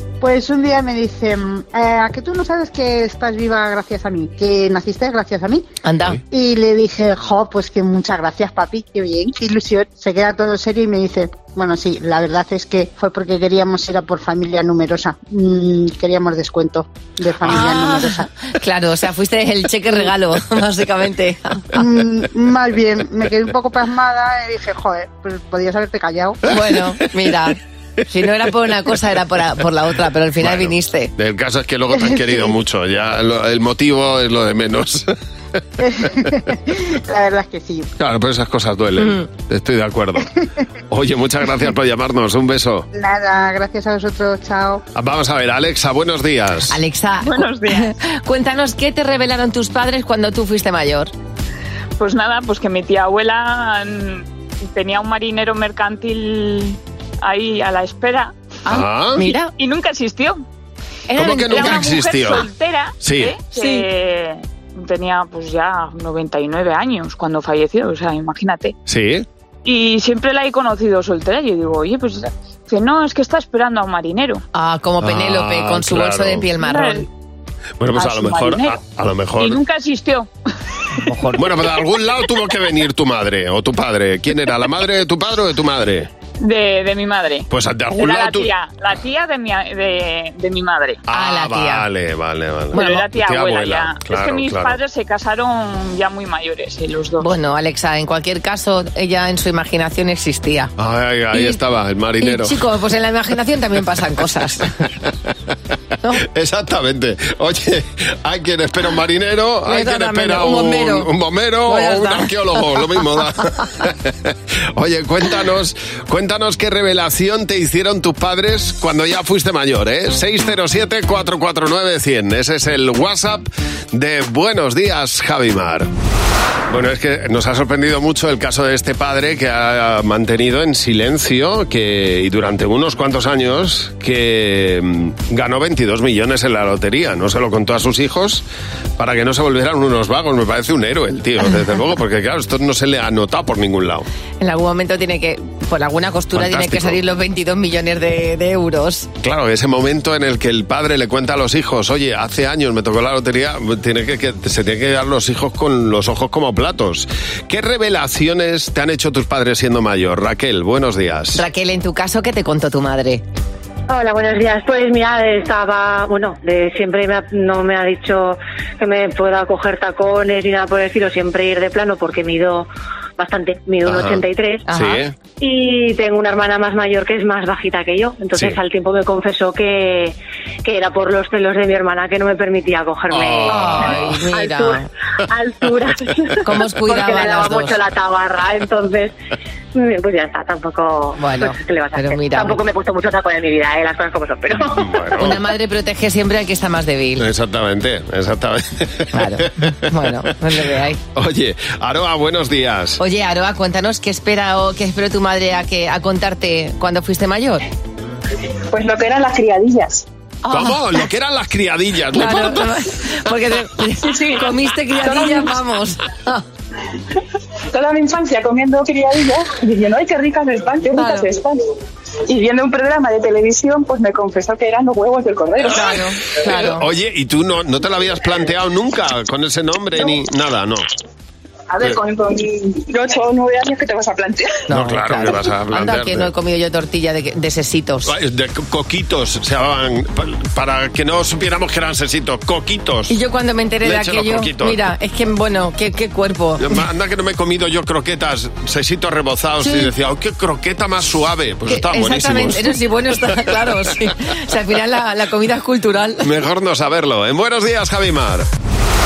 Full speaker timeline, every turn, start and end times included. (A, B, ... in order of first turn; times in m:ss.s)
0:00.2-0:05.6 A
0:05.8-0:06.2 B
0:06.3-0:18.3 A
0:17.4-0:21.8 B
0:21.7-0:26.4 A
0:26.4-0:31.1 B
0:30.4-0:35.1 C
0:32.0-0:32.5 A
0:35.8-0:37.9 A
0:38.0-0:40.3 C
0:40.9-0:42.9 C
0:42.9-0:44.8 A
0:44.9-0:46.8 C
0:46.7-0:51.1 B
0:47.2-0:47.9 D
0:52.0-0:58.7 D
0:58.6-0:59.2 C
0:58.7-0:59.5 B
0:59.5-1:00.4 D
1:01.1-1:01.8 B
1:01.1-1:02.5 C
1:01.4-1:08.8 D
1:03.0-1:03.4 C
1:03.6-1:03.8 B
1:08.9-1:09.2 C
1:09.6-1:14.4 D
1:14.5-1:17.1 B
1:15.0-1:16.5 C
1:16.6-1:17.0 D
1:17.8-1:19.6 C
1:17.9-1:18.8 D
1:19.4-1:20.3 D
1:21.3-1:26.1 C
1:26.4-1:31.0 D
1:27.5-1:28.5 C
1:31.1-1:34.8 C
1:31.1-1:31.8 B
1:32.7-1:33.0 B
1:32.7-1:37.3 D
1:37.2-1:40.7 B
1:40.8-1:42.6 C
1:41.3-1:41.6 B
1:42.2-1:44.7 B
1:46.2-2:05.9 C
1:49.7-1:51.1 B
1:51.7-1:52.3 B
2:06.7-2:18.4 C
2:19.0-2:24.1 C
2:24.4-2:29.1 B
2:26.3-2:27.0 C
2:29.2-2:41.4 C
2:41.3-2:43.2 B
2:43.9-2:54.6 E
2:53.8-2:55.1 C
2:54.7-2:55.0 B
2:55.4-3:09.1 E
3:03.1-3:04.1 C
3:03.5-3:04.9 B
3:06.4-3:07.8 B
3:09.7-3:14.8 E
3:11.2-3:12.6 B
3:14.5-3:15.4 C
3:15.2-3:17.2 B
3:17.2-3:19.7 C
3:19.1-3:21.0 B
3:21.1-3:23.0 C
3:23.0-3:27.6 B
3:28.7-3:30.0 F
3:30.4-3:30.8 B
3:30.5-3:32.7 C
3:32.1-3:36.4 B
3:34.0-3:35.5 F
3:37.7-3:41.6 F
3:41.0-3:41.2 B
3:42.3-3:46.1 F
3:45.7-3:46.9 B
3:46.4-3:50.8 C
3:51.7-3:54.6 F
3:54.7-3:58.1 B
3:54.7-3:56.3 C
3:58.0-4:03.1 C
4:03.1-4:06.8 B
4:03.8-4:04.8 C
4:06.6-4:12.8 C
4:09.6-4:09.9 B
4:11.7-4:16.3 B
4:16.2-4:18.5 C